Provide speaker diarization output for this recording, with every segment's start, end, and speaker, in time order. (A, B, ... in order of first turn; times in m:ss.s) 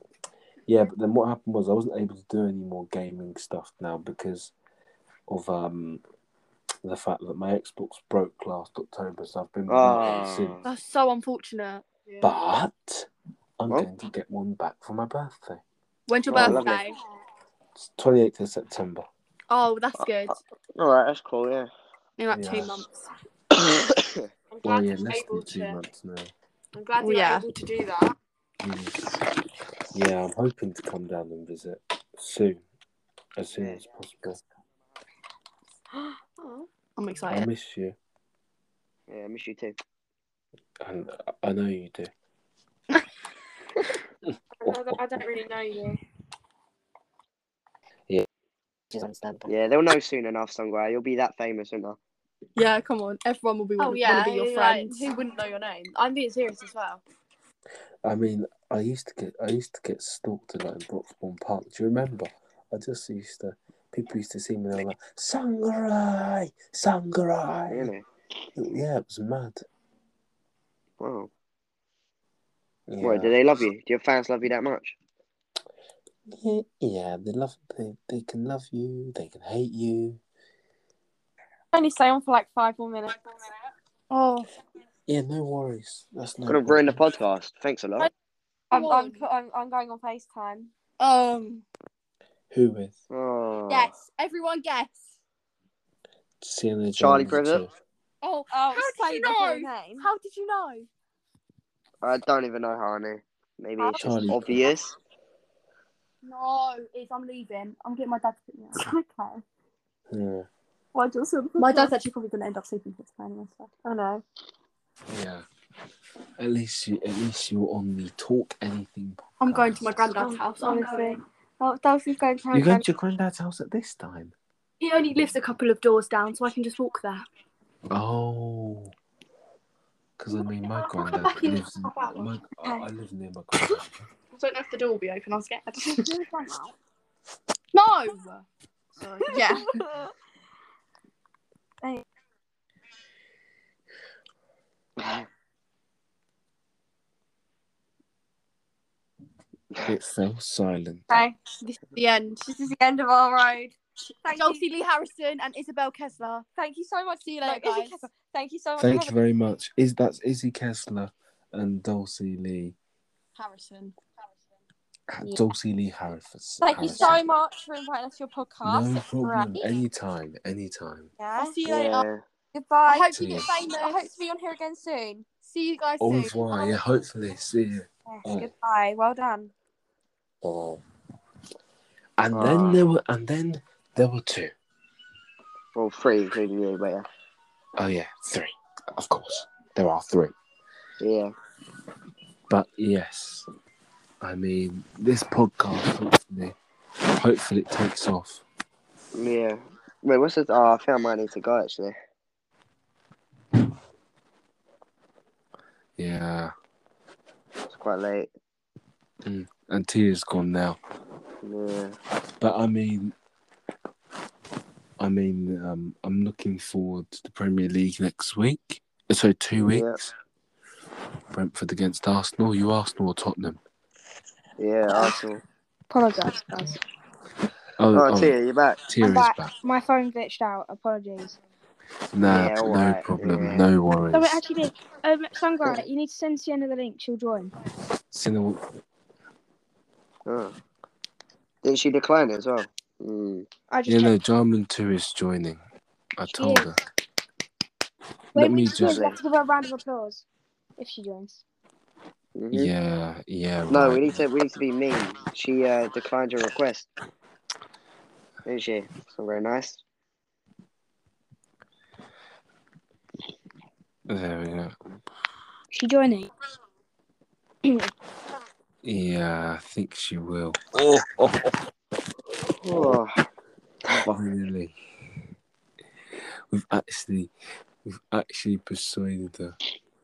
0:00.6-0:04.5 A
0:05.3-0:06.0 A
0:06.8-0:10.6 A
0:09.7-0:10.7 B
0:10.6-0:12.4 C
0:12.2-0:15.6 A
0:16.1-0:17.0 C
0:16.3-0:16.6 A
0:16.3-0:16.8 B
0:17.7-0:19.1 A
0:19.5-0:20.4 C
0:20.8-0:21.7 B
0:22.2-0:23.1 C
0:22.3-0:22.8 A
0:23.6-0:24.2 B
0:24.5-0:25.7 C
0:24.6-0:26.3 A
0:26.8-0:27.6 D
0:27.0-0:28.1 C
0:28.6-0:29.0 A
0:29.9-0:32.6 A
0:33.4-0:34.4 A
0:33.5-0:33.8 B
0:37.0-0:37.4 C
0:37.2-0:38.0 A
0:39.1-0:39.8 B
0:40.8-0:42.1 A
0:44.6-0:46.0 D
0:44.6-0:45.2 A
0:48.9-0:49.5 A
0:49.5-0:52.0 B
0:52.6-0:55.8 C
0:53.8-0:57.0 D
0:58.0-1:07.9 A
1:07.7-1:08.0 B
1:08.5-1:09.6 A
1:11.0-1:11.3 B
1:12.9-1:13.4 A
1:13.0-1:15.0 B
1:16.2-1:20.2 A
1:21.7-1:23.2 D
1:24.1-1:24.4 E
1:25.1-1:27.0 A
1:26.5-1:28.1 B
1:28.7-1:30.7 D
1:28.7-1:29.2 C
1:31.0-1:31.6 C
1:32.5-1:33.0 A
1:33.1-1:33.9 B
1:33.7-1:35.0 C
1:36.4-1:37.8 A
1:37.0-1:37.6 B
1:38.2-1:40.9 C
1:38.5-1:40.1 D
1:42.0-1:44.9 B
1:43.8-1:44.3 D
1:44.0-1:44.7 A
1:46.2-1:49.4 C
1:50.1-1:50.5 A
1:51.4-1:51.9 D
1:51.6-1:54.2 C
1:55.1-1:55.4 A
1:56.4-2:00.2 A
1:59.4-2:01.2 C
2:00.1-2:02.8 D
2:02.5-2:04.3 A
2:04.8-2:07.3 C
2:07.9-2:08.9 A
2:10.2-2:14.0 A
2:10.6-2:12.2 C
2:14.3-2:16.1 C
2:16.0-2:16.7 E
2:17.7-2:18.4 C
2:19.0-2:19.8 C
2:25.0-2:25.2 B
2:29.8-2:31.1 A
2:31.1-2:31.4 D
2:31.6-2:32.5 C
2:32.5-2:34.6 D
2:34.3-2:36.4 C
2:36.6-2:39.1 D
2:37.4-2:38.0 C
2:38.8-2:42.8 A
2:43.4-2:43.9 C
2:45.2-2:47.2 A
2:46.6-2:49.7 D
2:48.6-2:51.1 A
2:51.2-2:51.6 D
2:51.4-2:52.1 C
2:51.6-2:52.2 B
2:52.5-2:55.4 D
2:52.9-2:54.2 C
2:53.1-2:53.5 A
2:55.4-2:56.7 C
2:56.0-2:58.5 A
2:58.1-2:59.5 D
3:00.4-3:00.8 A
3:02.2-3:04.5 A
3:02.3-3:02.8 B
3:05.7-3:07.0 B
3:07.8-3:10.3 A
3:11.0-3:11.3 B
3:12.5-3:13.4 A
3:14.2-3:16.5 A
3:17.0-3:18.4 A
3:19.1-3:22.0 B
3:26.0-3:26.5 A
3:27.7-3:28.3 B
3:29.2-3:30.8 A
3:31.4-3:32.0 B
3:32.4-3:33.1 A
3:35.0-3:39.9 A
3:39.7-3:40.0 B
3:41.3-3:43.6 A
3:44.6-3:45.4 B
3:45.9-3:46.8 E
3:47.8-3:49.5 A
3:47.9-3:48.8 B
3:49.0-3:51.4 E
3:52.1-3:54.4 A
3:52.3-3:53.7 B
3:54.1-3:57.5 E
3:58.1-3:58.6 A
4:00.2-4:00.5 B
4:01.6-4:03.5 B
4:03.7-4:04.2 E
4:03.9-4:05.6 A
4:06.2-4:06.8 A
4:06.3-4:06.7 E
4:08.3-4:09.0 A
4:08.3-4:10.2 E
4:08.8-4:09.2 B
4:10.8-4:11.4 E
4:12.3-4:12.7 B
4:12.5-4:14.2 A
4:13.7-4:16.9 B
4:18.4-4:19.8 B
4:24.1-4:24.7 A
4:25.7-4:26.3 E
4:28.8-4:31.5 A
4:32.6-4:33.1 B
4:34.0-4:34.8 A
4:36.5-4:37.3 A
4:37.8-4:39.6 A